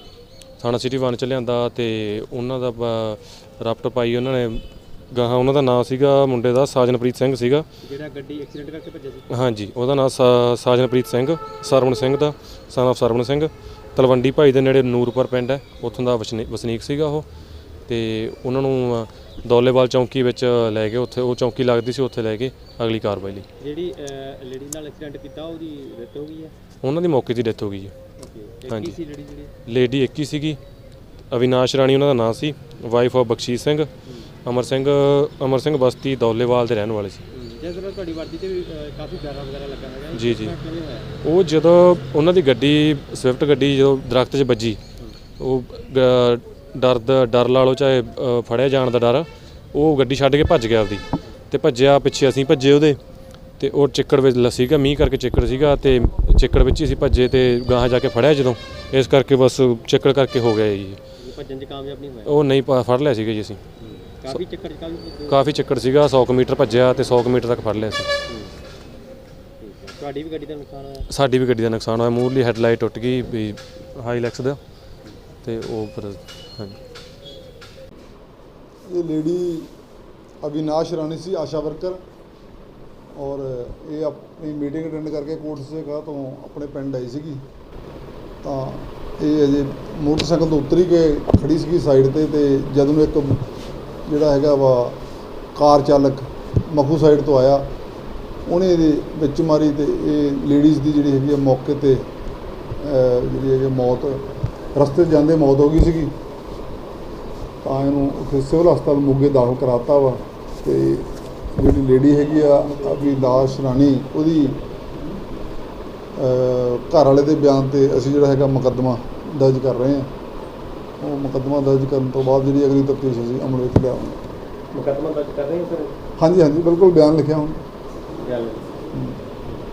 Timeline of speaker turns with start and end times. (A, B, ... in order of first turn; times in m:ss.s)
0:00.6-0:07.7 A
0:07.8-0:09.3 B
0:09.3-0:17.3 A
0:17.9-0:23.5 A
0:23.6-0:26.5 B
0:26.8-0:27.9 A
0:28.2-0:29.5 B
0:28.7-0:29.0 A
0:29.7-0:30.6 A
0:31.3-0:33.9 A
0:34.4-0:37.2 A
0:37.3-0:41.1 B
0:40.1-0:40.5 A
0:41.2-0:44.8 A
0:45.4-0:53.0 A
0:53.6-1:01.0 A
1:01.2-1:02.4 B
1:02.3-1:03.6 A
1:03.8-1:05.5 B
1:05.3-1:08.1 A
1:09.6-1:11.1 B
1:11.1-1:14.6 A
1:15.4-1:16.8 A
1:18.9-1:19.7 C
1:20.4-1:22.0 C
1:23.2-1:27.4 C
1:28.4-1:33.4 C
1:34.1-1:35.0 C
1:35.6-1:37.7 C
1:38.5-1:42.0 C
1:42.8-1:44.2 C
1:44.8-1:46.1 C
1:47.6-1:54.6 C
1:56.2-2:00.1 C
2:01.0-2:04.2 C
2:04.7-2:05.9 B
2:06.2-2:07.6 C
2:08.2-2:08.8 B
2:09.0-2:09.2 C